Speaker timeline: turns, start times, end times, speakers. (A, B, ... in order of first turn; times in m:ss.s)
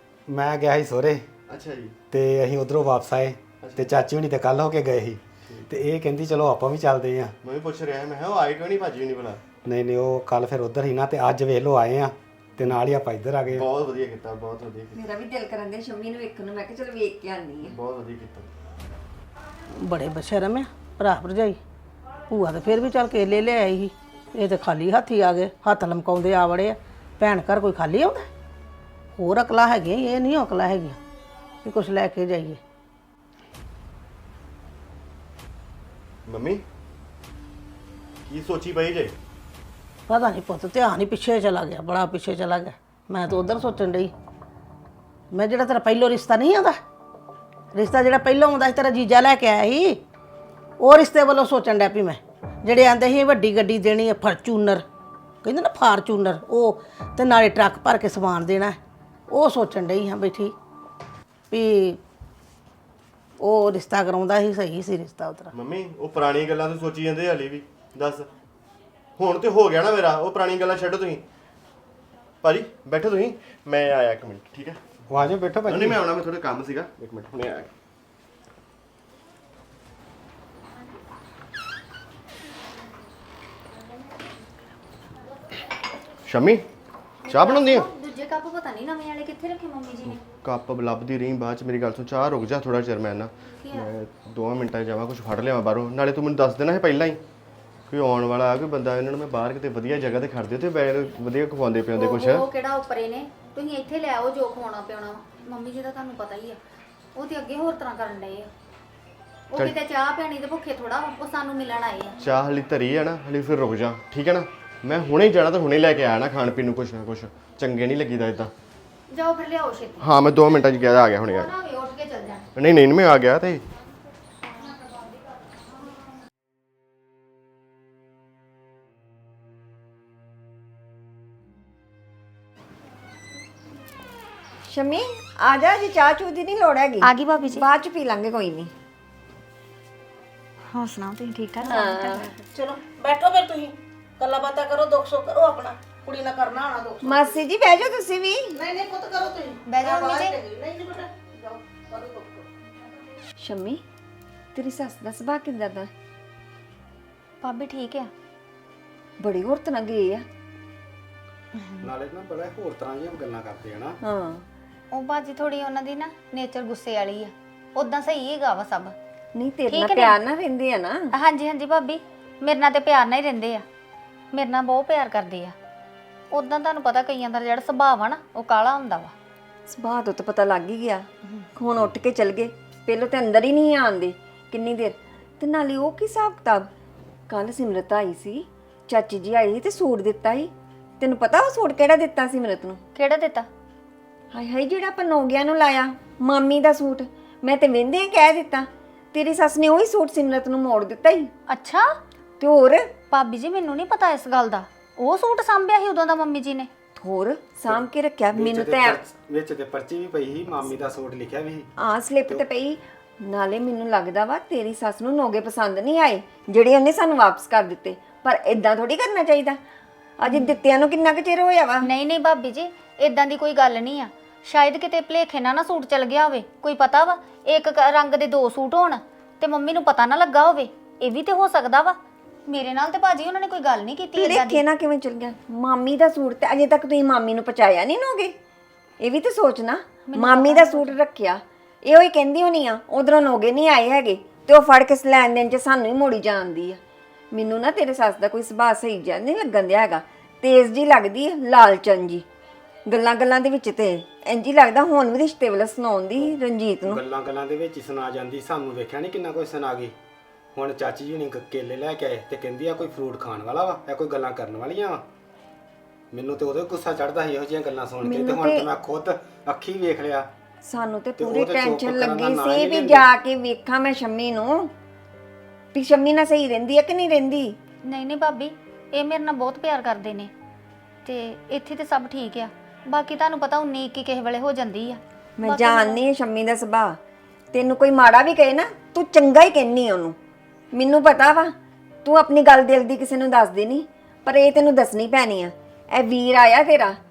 0:00.3-0:01.3 A
0:01.5-0:02.0 B
0:02.1-0:07.4 A
0:03.6-0:04.0 B
0:07.4-0:09.4 B
0:09.6-0:13.7 A
0:13.5-0:15.0 B
0:15.0-0:17.8 C
0:17.6-0:18.5 B
0:19.8-0:21.6 D
0:22.3-0:28.3 D
0:29.2-0:31.0 D
0:31.6-0:32.6 D
0:36.3-0:36.6 B
0:38.3-0:39.1 B
0:40.1-0:44.1 D
0:45.3-0:46.8 D
0:47.7-0:50.0 D
0:50.8-0:54.9 D
0:55.4-0:58.8 D
0:59.3-1:00.6 D
1:01.5-1:02.0 D
1:03.4-1:05.5 D
1:05.5-1:08.3 B
1:09.2-1:11.2 B
1:12.4-1:14.8 B
1:15.1-1:16.0 A
1:15.7-1:17.7 B
1:26.3-1:26.6 B
1:27.3-1:30.2 E
1:27.3-1:27.9 B
1:30.3-1:37.2 B
1:33.6-1:33.9 E
1:37.9-1:42.5 B
1:42.0-1:46.6 E
1:47.2-1:48.5 E
1:49.5-1:52.2 E
1:52.2-1:58.5 B
1:59.1-2:00.1 E
2:00.0-2:01.5 B
2:01.3-2:02.5 E
2:02.6-2:03.6 B
2:14.7-2:18.7 C
2:17.0-2:17.7 E
2:20.7-2:22.3 E
2:21.6-2:22.3 C
2:22.5-2:27.4 D
2:27.0-2:28.6 C
2:28.5-2:32.5 D
2:29.7-2:30.4 E
2:33.4-2:33.8 C
2:34.6-2:35.9 C
2:37.4-2:38.1 E
2:39.2-2:40.2 C
2:41.6-2:41.8 E
2:41.8-2:44.0 A
2:44.0-2:44.4 C
2:44.9-2:49.0 E
2:49.4-2:51.1 C
2:49.7-2:50.2 E
2:51.1-2:53.6 E
2:54.3-2:55.6 E
2:56.3-2:59.1 E
2:59.7-3:06.7 C
3:07.3-3:12.8 C
3:13.0-3:13.5 E
3:14.3-3:21.3 C
3:21.5-3:21.9 E
3:22.4-3:22.9 C
3:23.1-3:26.7 E
3:27.0-3:29.0 C
3:27.7-3:31.7 A
3:31.8-3:39.6 C
3:40.2-3:41.9 C
3:41.8-3:54.6 E
3:54.2-3:58.3 C
3:59.0-4:06.8 C
4:00.1-4:01.0 E
4:07.3-4:12.2 C
4:12.9-4:17.0 C
4:16.9-4:20.0 A
4:20.5-4:25.0 A
4:26.1-4:30.3 A
4:28.0-4:28.6 C
4:30.6-4:34.7 C
4:31.2-4:33.1 A
4:35.7-4:37.6 C
4:37.8-4:40.3 E
4:41.0-4:46.0 E
4:45.4-4:47.0 C
4:47.5-4:50.2 C
4:50.7-4:57.0 C